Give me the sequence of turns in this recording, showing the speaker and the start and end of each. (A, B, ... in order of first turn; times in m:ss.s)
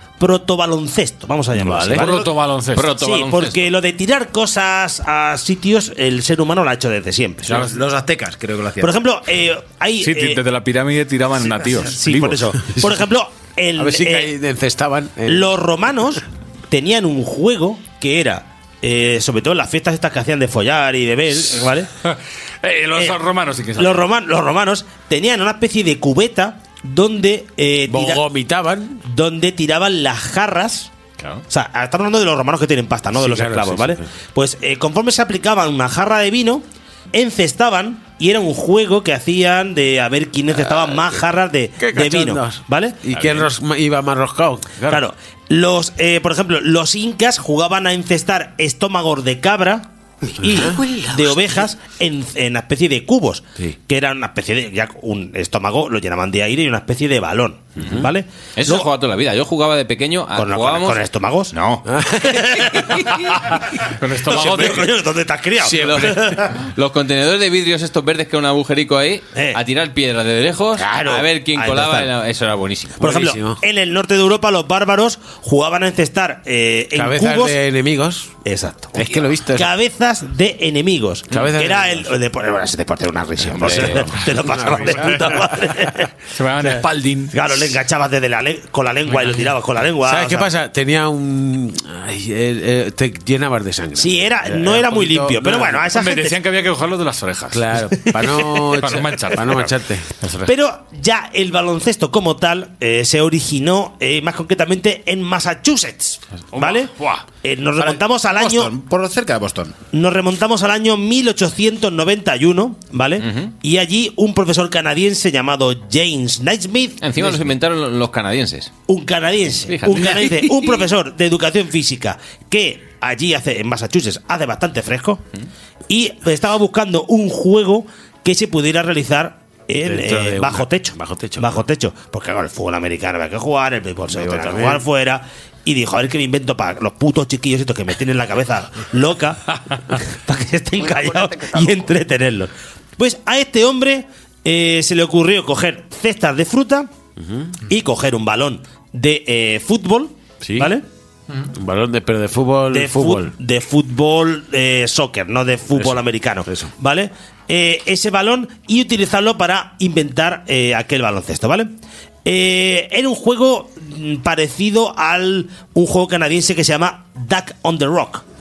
0:00.2-0:02.3 A
0:01.9-0:03.0 B
0:02.8-0:03.5 C
0:02.9-0:07.6 A
0:07.4-0:09.0 D
0:07.5-0:07.8 B
0:08.8-0:10.4 A
0:10.0-0:12.5 B
0:11.8-0:14.3 A
0:12.6-0:13.0 E
0:13.8-0:15.5 E
0:15.3-0:21.9 A
0:22.0-0:24.0 B
0:22.9-0:23.2 A
0:23.8-0:28.2 A
0:27.9-0:29.0 E
0:29.1-0:30.9 A
0:31.5-0:43.5 A
0:33.1-0:34.1 E
0:40.6-0:41.2 E
0:41.8-0:45.0 E
0:44.9-0:49.9 A
0:50.3-0:51.3 E
0:50.4-0:58.9 A
0:57.8-0:58.1 E
0:58.6-1:01.0 C
1:00.4-1:01.5 A
1:01.8-1:03.1 E
1:02.2-1:02.8 A
1:03.3-1:04.9 B
1:04.2-1:06.4 A
1:04.4-1:04.7 E
1:05.6-1:06.5 E
1:06.6-1:13.0 C
1:09.3-1:09.6 A
1:10.8-1:12.1 A
1:13.0-1:13.6 E
1:13.0-1:17.6 A
1:16.9-1:18.3 E
1:18.4-1:26.1 A
1:18.9-1:19.7 E
1:21.3-1:22.1 E
1:23.5-1:25.3 E
1:24.9-1:25.3 B
1:26.3-1:27.7 B
1:27.3-1:30.5 A
1:29.1-1:29.5 B
1:30.0-1:35.8 E
1:34.0-1:36.3 A
1:35.9-1:37.7 B
1:37.5-1:40.1 E
1:38.0-1:38.6 A
1:38.8-1:40.5 B
1:40.4-1:48.7 A
1:46.5-1:47.2 B
1:47.8-1:49.8 D
1:49.9-1:57.5 A
1:57.0-1:58.7 C
1:58.9-2:05.2 A
1:59.7-2:00.4 C
2:00.0-2:00.8 E
2:05.9-2:26.9 A
2:09.8-2:11.6 E
2:14.1-2:14.8 E
2:27.2-2:27.6 E
2:27.6-2:30.8 A
2:30.4-2:30.7 E
2:31.4-2:33.3 E
2:32.7-2:41.7 A
2:35.7-2:36.7 E
2:42.2-2:48.2 A